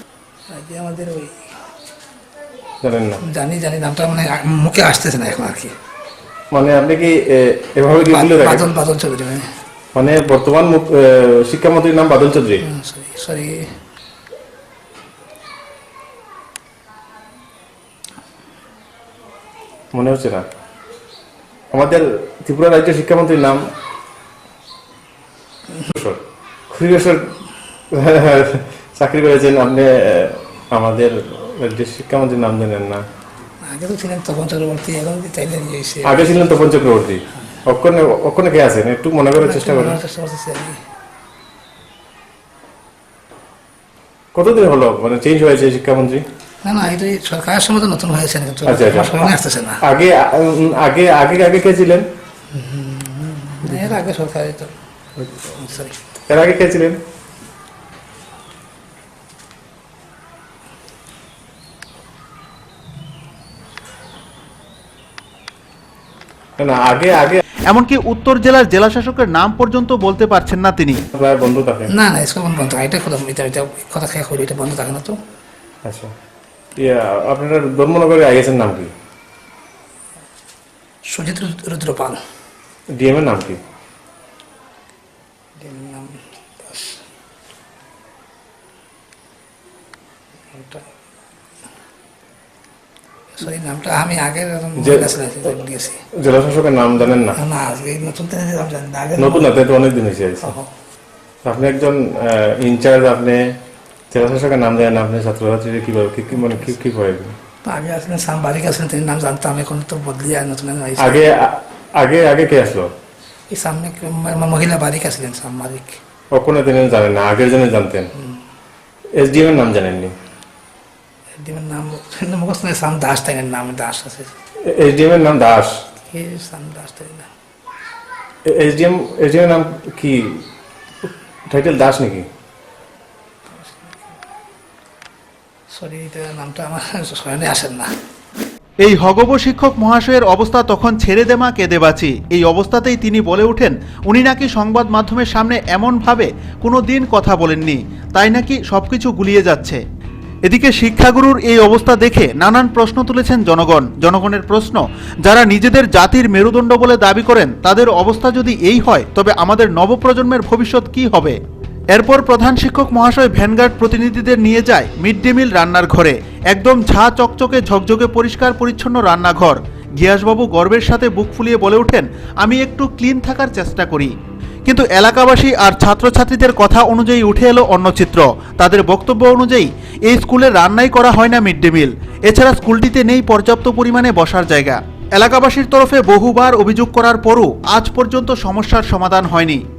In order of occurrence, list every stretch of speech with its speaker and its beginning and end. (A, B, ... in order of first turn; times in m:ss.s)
0:00.5-0:01.3 A
0:02.8-0:03.2 B
0:03.2-0:05.7 A
0:06.5-0:08.7 B
0:08.1-0:09.5 A
0:09.9-0:12.6 B
0:12.6-0:13.7 A
0:19.9-0:20.4 B
0:21.7-0:23.6 B
0:25.8-0:27.3 B
0:27.9-0:33.0 B
0:33.6-0:36.4 A
0:36.0-0:40.0 B
0:39.4-0:40.8 A
0:44.3-0:46.2 B
0:46.6-0:49.8 A
0:48.6-0:49.2 B
0:49.8-0:52.0 B
0:52.5-0:54.7 A
0:53.7-0:53.9 B
0:55.2-0:56.0 A
0:56.3-0:57.0 B
1:06.6-1:07.4 B
1:07.7-1:11.0 C
1:11.1-1:11.9 B
1:11.9-1:15.2 A
1:15.8-1:16.1 B
1:16.8-1:18.9 B
1:21.1-1:22.2 A
1:23.0-1:23.6 B
1:25.6-1:27.0 A
1:30.5-1:30.8 A
1:33.4-1:36.0 A
1:34.8-1:35.2 B
1:36.1-1:37.4 B
1:37.3-1:39.5 A
1:39.2-1:40.5 B
1:40.4-1:40.7 A
1:41.4-1:43.6 B
1:44.1-1:47.4 B
1:47.6-1:51.2 A
1:51.0-1:52.9 B
1:53.5-1:56.0 A
1:56.3-1:58.1 B
1:59.1-2:00.1 B
2:01.4-2:04.3 A
2:04.7-2:05.7 B
2:06.1-2:07.3 A
2:08.5-2:10.4 B
2:11.5-2:12.2 B
2:13.5-2:14.0 A
2:15.7-2:17.9 A
2:18.8-2:29.8 C
2:30.4-2:41.4 C
2:41.9-2:54.1 C
2:54.6-3:09.6 C